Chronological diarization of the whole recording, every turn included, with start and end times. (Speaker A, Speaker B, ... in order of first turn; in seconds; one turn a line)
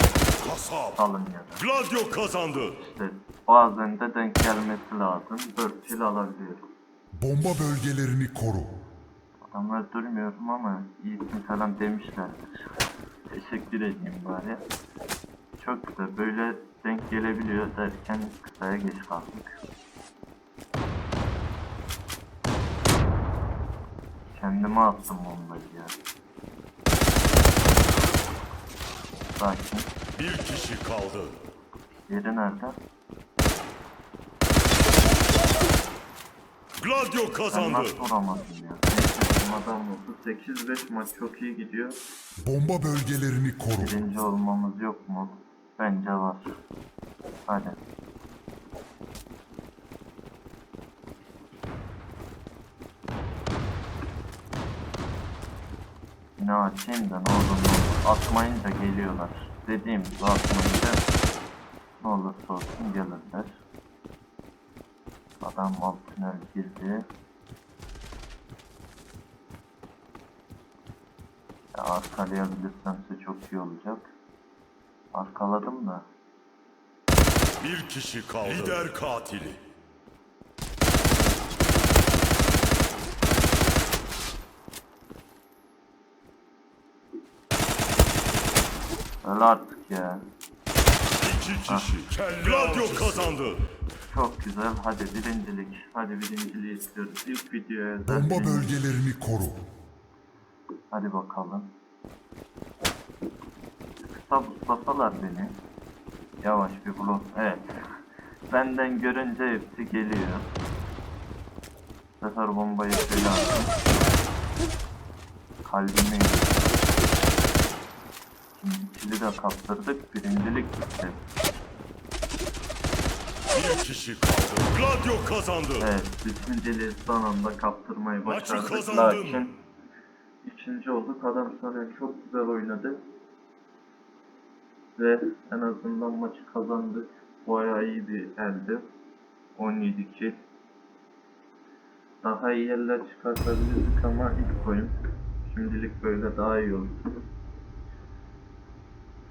Speaker A: 0.4-0.9
Speaker B: 0.9-1.7
Speaker A: 1.6-2.8
Speaker B: 2.8-6.6
Speaker C: 7.2-8.7
Speaker B: 9.4-12.6
Speaker B: 13.3-14.6
Speaker B: 15.6-19.5
Speaker B: 24.3-25.9
Speaker B: 29.3-29.9
Speaker A: 30.2-31.4
Speaker B: 32.1-32.8
Speaker A: 36.8-37.9
Speaker B: 37.5-42.0
Speaker C: 42.4-43.9
Speaker B: 43.8-46.6
Speaker B: 47.4-47.8
Speaker B: 56.4-61.0
Speaker B: 62.0-63.6
Speaker B: 65.4-67.0
Speaker B: 71.7-74.1
Speaker B: 75.1-76.0
Speaker A: 77.6-79.6
Speaker B: 89.2-90.2
Speaker A: 91.2-93.6
Speaker B: 91.7-92.0
Speaker B: 92.6-92.9
Speaker B: 94.1-98.8
Speaker C: 98.1-99.6
Speaker B: 100.9-101.7
Speaker B: 104.0-105.6
Speaker B: 106.4-107.7
Speaker B: 108.5-110.5
Speaker B: 112.2-113.7
Speaker B: 115.6-116.9
Speaker B: 118.5-121.2
Speaker A: 123.5-125.8
Speaker B: 125.8-129.6
Speaker A: 128.2-129.4
Speaker B: 130.4-133.0
Speaker B: 134.9-138.8
Speaker B: 139.6-140.4
Speaker B: 142.2-144.9
Speaker B: 145.4-147.2